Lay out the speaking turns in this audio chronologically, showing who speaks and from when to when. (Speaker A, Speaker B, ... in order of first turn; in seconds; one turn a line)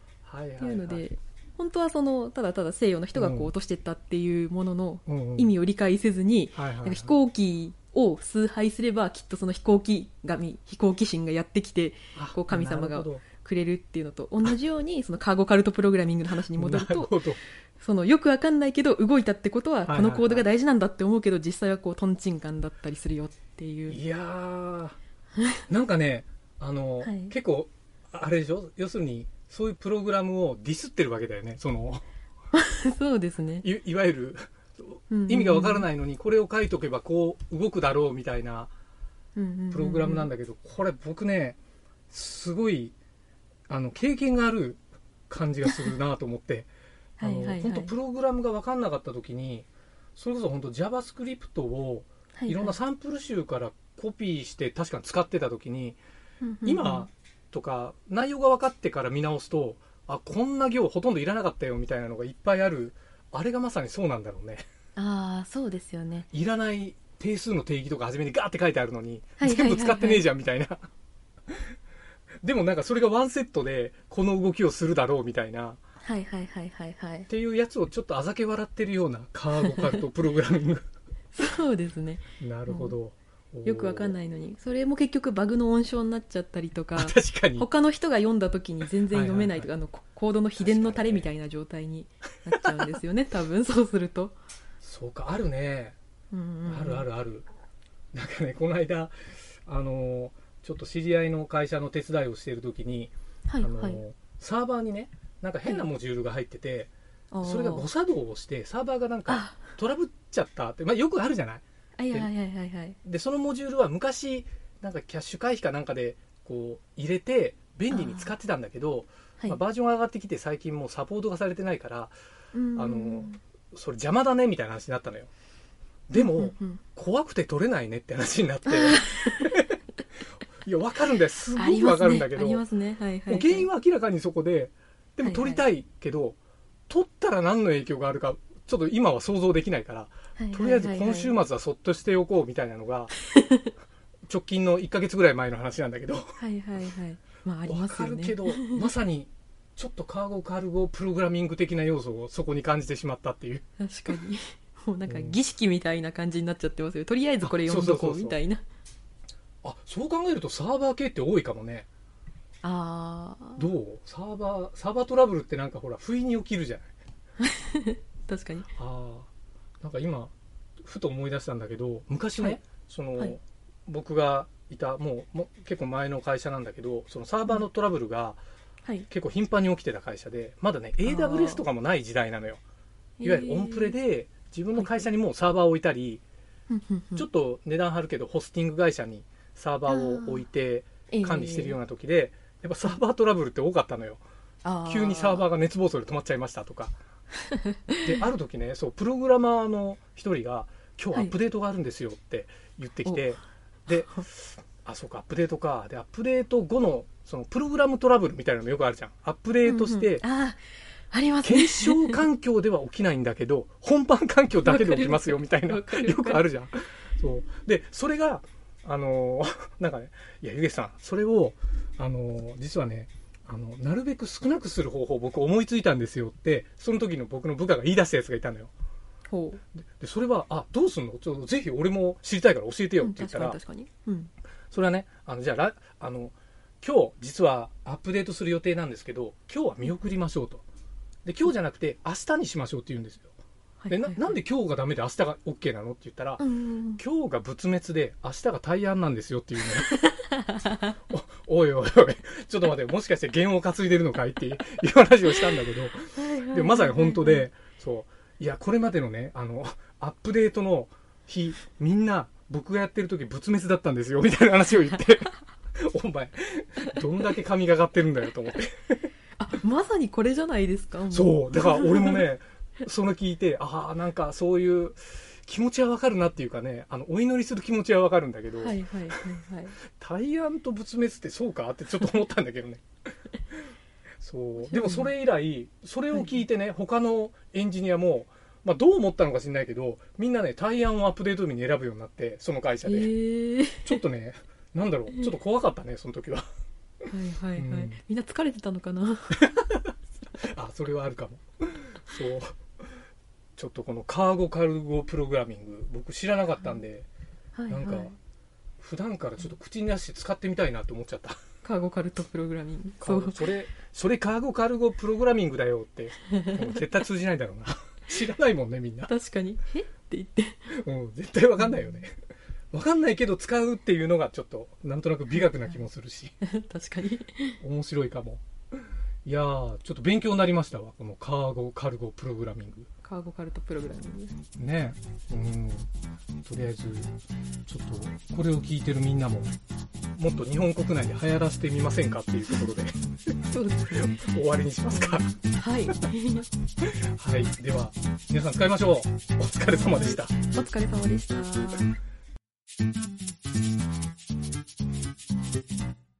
Speaker A: 0.2-1.0
Speaker B: 0.6-17.2
Speaker A: 3.1-3.5
Speaker A: 5.1-5.5
Speaker A: 6.5-7.1
Speaker A: 12.1-13.2
Speaker A: 16.5-17.4
Speaker B: 17.8-24.0
Speaker A: 19.9-20.4
Speaker A: 23.9-25.0
Speaker A: 25.7-32.0
Speaker B: 27.0-27.3
Speaker B: 32.5-33.7
Speaker A: 33.6-38.7
Speaker B: 35.1-35.9
Speaker B: 39.4-40.3
Speaker A: 39.7-41.6
Speaker A: 42.1-42.9
Speaker A: 43.7-46.7
Speaker B: 47.2-47.9
Speaker A: 47.2-56.0
Speaker B: 52.4-52.8
Speaker B: 56.4-57.1
Speaker A: 56.6-64.6
Speaker B: 65.0-66.3
Speaker A: 66.3-70.9
Speaker B: 69.4-70.2
Speaker A: 72.4-75.8
Speaker B: 76.0-77.3
Speaker A: 77.3-80.8
Speaker B: 81.3-83.0
Speaker A: 82.4-84.1
Speaker B: 83.6-94.3
Speaker A: 87.0-87.7
Speaker A: 89.1-89.7
Speaker A: 90.6-91.3
Speaker A: 94.8-96.0
Speaker B: 96.3-97.0
Speaker A: 96.7-97.5
Speaker A: 98.1-106.9
Speaker B: 103.5-104.0
Speaker B: 107.3-107.9
Speaker A: 107.4-112.3
Speaker B: 109.3-109.7
Speaker B: 112.0-113.0
Speaker A: 113.0-122.1
Speaker B: 117.9-118.3
Speaker B: 122.5-123.4
Speaker A: 122.7-125.3
Speaker A: 126.1-129.8
Speaker B: 126.1-126.8
Speaker B: 128.7-129.5
Speaker A: 130.6-132.6
Speaker B: 131.5-133.7
Speaker A: 133.3-136.4
Speaker B: 135.2-135.6
Speaker A: 136.9-143.1
Speaker B: 140.4-141.3
Speaker A: 144.3-146.4
Speaker B: 146.4-148.8
Speaker A: 147.7-153.6
Speaker B: 153.8-158.6
Speaker A: 155.1-155.4
Speaker A: 157.4-158.4
Speaker A: 159.6-161.8
Speaker B: 162.6-163.7
Speaker A: 163.6-166.9
Speaker B: 167.4-168.7
Speaker A: 168.8-169.3
Speaker A: 169.8-178.4
Speaker A: 179.1-182.6
Speaker B: 181.0-181.7
Speaker B: 183.2-183.9
Speaker A: 183.2-186.2
Speaker B: 184.8-185.1
Speaker B: 186.7-187.2
Speaker A: 187.2-194.2
Speaker B: 189.9-190.4
Speaker B: 191.1-191.8
Speaker B: 194.6-195.5
Speaker A: 194.8-196.9
Speaker A: 198.0-210.2
Speaker B: 203.9-204.2
Speaker B: 209.6-212.2
Speaker A: 211.4-228.7
Speaker B: 214.6-216.5
Speaker B: 229.3-229.6
Speaker A: 229.8-233.6
Speaker B: 233.0-234.3
Speaker A: 234.7-240.6
Speaker A: 241.2-243.3
Speaker B: 243.8-244.4
Speaker A: 243.9-246.4
Speaker B: 246.4-247.0
Speaker A: 247.0-250.1
Speaker B: 250.0-250.8
Speaker A: 251.1-269.1
Speaker B: 256.1-257.4
Speaker B: 269.4-272.2
Speaker A: 271.1-279.2
Speaker B: 278.6-279.8
Speaker A: 279.9-282.8
Speaker A: 284.2-293.1
Speaker B: 284.6-285.1
Speaker B: 286.1-286.4
Speaker B: 292.8-294.0
Speaker A: 293.8-296.4
Speaker B: 297.1-299.5
Speaker A: 297.6-298.0
Speaker A: 300.4-302.7
Speaker A: 303.6-307.1
Speaker B: 307.5-308.1
Speaker A: 307.7-308.1
Speaker A: 308.8-311.4
Speaker B: 311.6-313.5
Speaker A: 313.0-319.1
Speaker B: 316.4-316.8
Speaker B: 319.1-320.6
Speaker A: 320.7-322.1
Speaker B: 321.6-321.9
Speaker A: 322.7-326.4
Speaker B: 326.4-327.6
Speaker A: 327.6-328.4
Speaker A: 329.2-332.9
Speaker B: 333.0-334.4
Speaker A: 334.6-335.9
Speaker A: 336.4-337.1
Speaker A: 337.7-339.5
Speaker A: 340.1-343.0
Speaker B: 343.5-344.2
Speaker A: 343.9-345.4
Speaker B: 344.9-346.5
Speaker A: 346.8-350.3
Speaker B: 349.9-351.9